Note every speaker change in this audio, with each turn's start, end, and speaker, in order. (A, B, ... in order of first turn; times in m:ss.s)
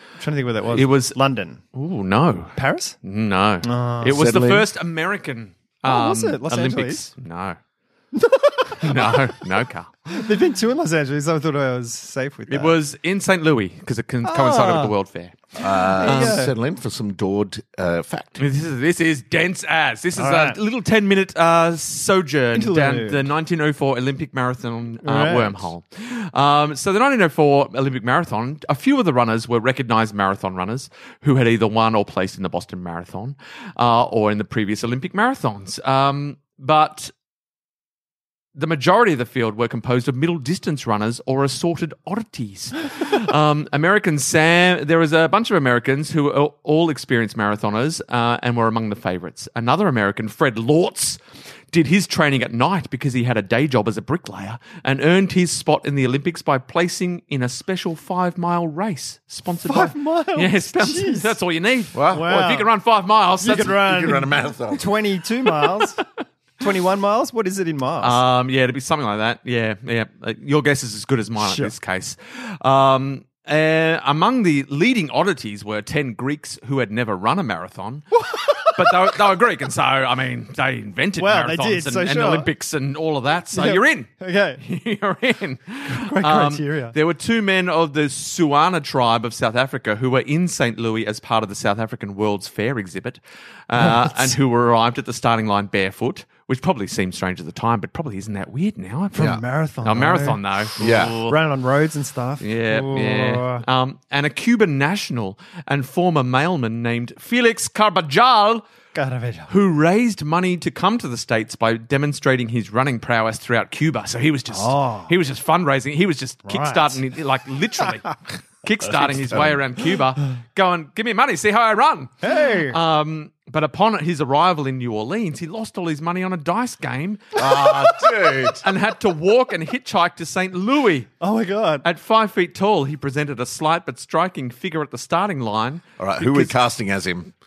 0:00.2-0:01.6 A
0:00.7-0:01.2 B
0:01.7-0:07.6 B
0:02.5-0:03.0 A
0:03.6-0:04.1 A
0:04.0-0:04.7 C
0:05.8-0:07.0 A
0:08.1-0:09.3 A
0:08.8-0:09.9 B
0:10.1-0:12.7 A
0:12.5-0:16.4 B
0:14.2-0:14.9 A
0:15.6-0:18.4 C
0:15.6-0:16.5 A
0:18.4-0:37.1 B
0:20.2-0:20.6 A
0:22.5-0:23.2 A
0:25.0-0:25.7 A
0:38.5-0:51.2 B
0:51.7-1:03.8 B
0:59.6-1:01.4 A
1:01.9-1:02.3 C
1:02.1-1:02.7 A
1:03.4-1:06.0 A
1:03.6-1:04.9 C
1:05.4-1:06.1 B
1:06.6-1:08.2 A
1:08.0-1:41.4 B
1:11.4-1:11.7 A
1:18.1-1:19.2 A
1:21.2-1:22.5 A
1:23.5-1:24.6 A
1:25.9-1:26.9 A
1:33.8-1:34.3 A
1:39.1-1:40.4 A
1:40.8-1:41.2 C
1:41.2-1:43.6 A
1:42.4-1:48.6 B
1:48.9-1:49.5 A
1:49.5-2:07.8 B
1:54.5-1:55.1 A
1:56.4-1:57.0 A
1:58.8-1:59.6 C
2:02.2-2:02.8 A
2:07.3-2:08.6 C
2:08.5-2:11.1 B
2:11.2-2:11.8 A
2:11.8-2:16.5 B
2:16.0-2:17.3 C